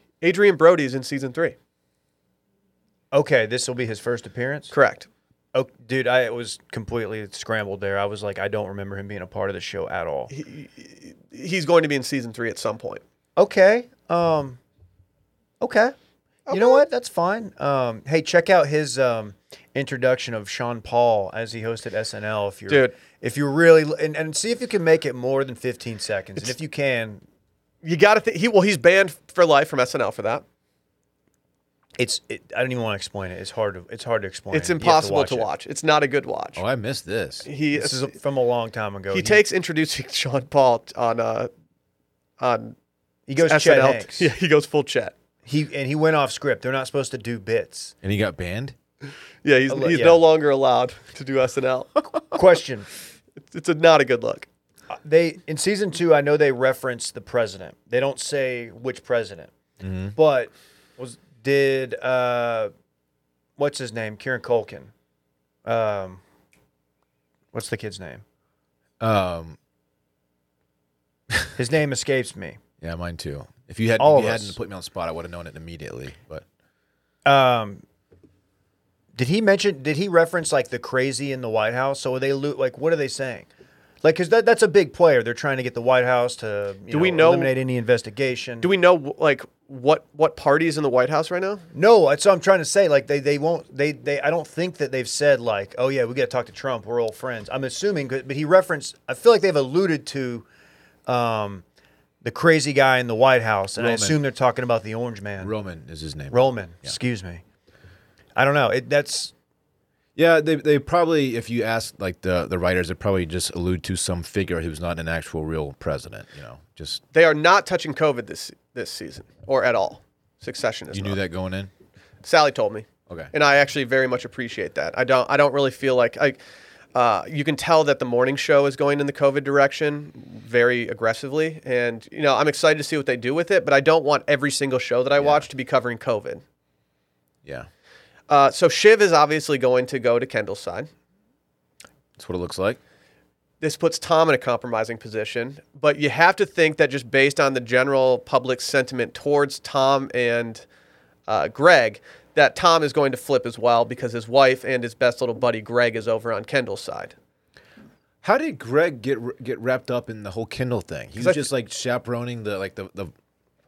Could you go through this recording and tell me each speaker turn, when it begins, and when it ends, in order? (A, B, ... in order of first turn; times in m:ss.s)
0:00.2-0:01.5 A
0:03.1-0:04.7 B
0:04.7-0:05.1 A
0:05.5-0:10.3 B
0:10.3-0:13.0 A
0:13.4-0:14.6 B
0:15.6-0:15.9 B
0:16.5-0:16.8 A
0:16.5-0:27.2 B
0:22.7-0:22.9 A
0:27.8-0:30.4 A
0:32.0-0:35.5 B
0:34.5-0:36.6 A
0:36.6-0:37.5 C
0:37.4-0:38.1 A
0:37.7-0:39.4 B
0:39.1-0:41.5 A
0:42.4-0:42.7 A
0:43.3-0:44.3 B
0:43.4-0:45.1 A
0:45.4-0:47.9 B
0:48.0-0:48.7 C
0:49.4-0:51.9 A
0:49.7-0:50.2 B
0:52.3-0:52.9 B
0:53.4-0:54.4 A
0:54.9-0:59.5 B
0:59.8-1:00.2 C
1:00.1-1:02.7 B
1:03.6-1:04.9 B
1:05.6-1:06.2 B
1:07.5-1:08.2 B
1:09.0-1:09.6 C
1:11.5-1:12.6 B
1:12.8-1:16.4 C
1:14.0-1:14.6 B
1:17.2-1:17.8 B
1:19.1-1:23.5 B
1:24.0-1:28.7 B
1:26.9-1:27.5 A
1:28.6-1:31.6 A
1:31.7-1:40.4 B
1:41.0-1:41.6 B
1:42.2-1:45.5 B
1:43.8-1:44.2 C
1:45.4-1:47.0 C
1:46.3-1:47.4 B
1:48.4-1:49.3 B
1:50.2-1:57.0 C
1:57.1-2:01.2 A
2:00.9-2:01.7 C
2:02.2-2:06.4 A
2:06.9-2:16.4 A
2:15.2-2:15.5 C
2:18.3-2:20.9 A
2:22.2-2:22.8 C
2:23.6-2:30.6 A
2:31.3-2:37.1 A
2:38.2-2:43.1 C
2:41.2-2:41.4 A